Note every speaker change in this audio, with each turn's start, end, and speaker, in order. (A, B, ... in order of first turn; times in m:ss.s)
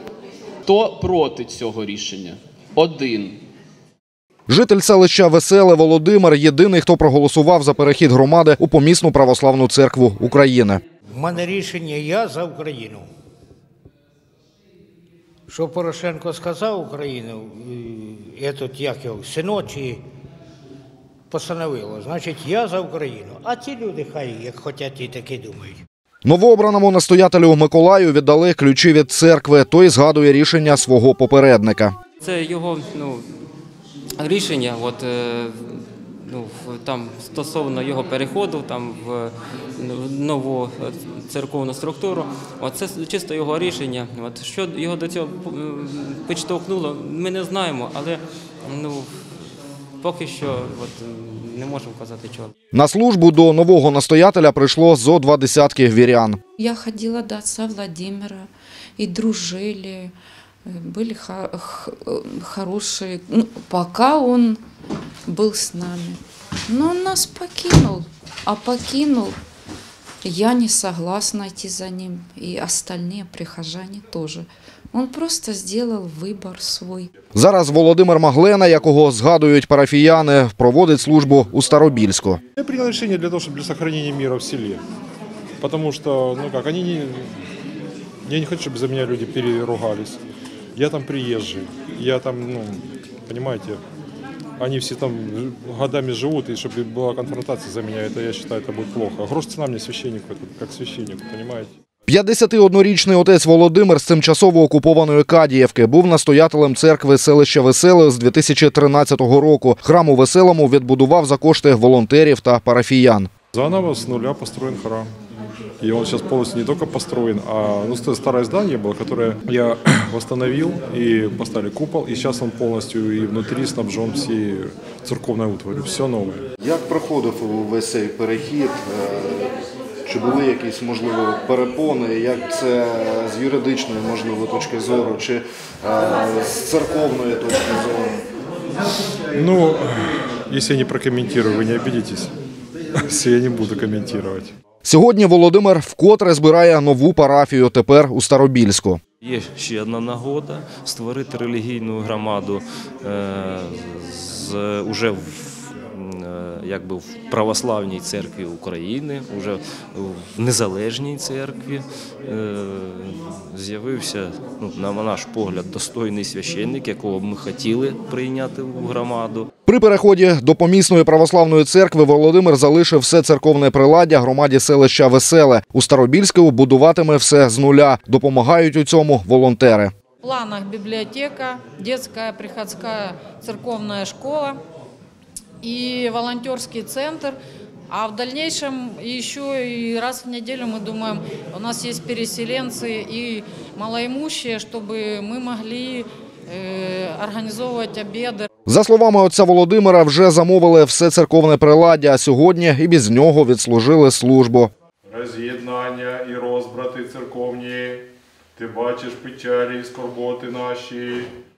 0:00.7-0:03.3 A
0:04.5-0:10.8 B
0:11.1-0:13.1 C
0:15.5-0:20.0 C
0:21.3-0:25.8 C
0:26.2-0:32.0 B
0:32.2-0:33.3 D
0:34.2-0:49.1 D
0:50.0-0:52.5 D
0:52.7-0:56.4 B
0:56.6-1:00.1 E
1:00.7-1:04.6 E
1:05.3-1:09.4 E
1:10.2-1:17.1 E
1:17.4-1:22.4 B
1:22.6-1:24.8 F
1:25.6-1:27.4 F
1:28.2-1:30.2 F
1:30.8-1:33.8 F
1:34.6-1:41.7 F
1:42.1-1:53.3 B
1:53.5-1:55.1 F
1:55.8-2:06.4 F
2:06.6-2:09.5 B
2:10.0-2:18.2 B
2:19.3-2:22.3 F
2:23.0-2:24.5 F
2:24.8-2:29.0 B
2:29.2-2:49.5 G
2:49.7-2:59.9 B
3:00.2-3:04.6 H
3:05.6-3:07.4 H
3:07.9-3:18.5 H
3:18.7-3:24.7 B
3:25.1-3:31.3 F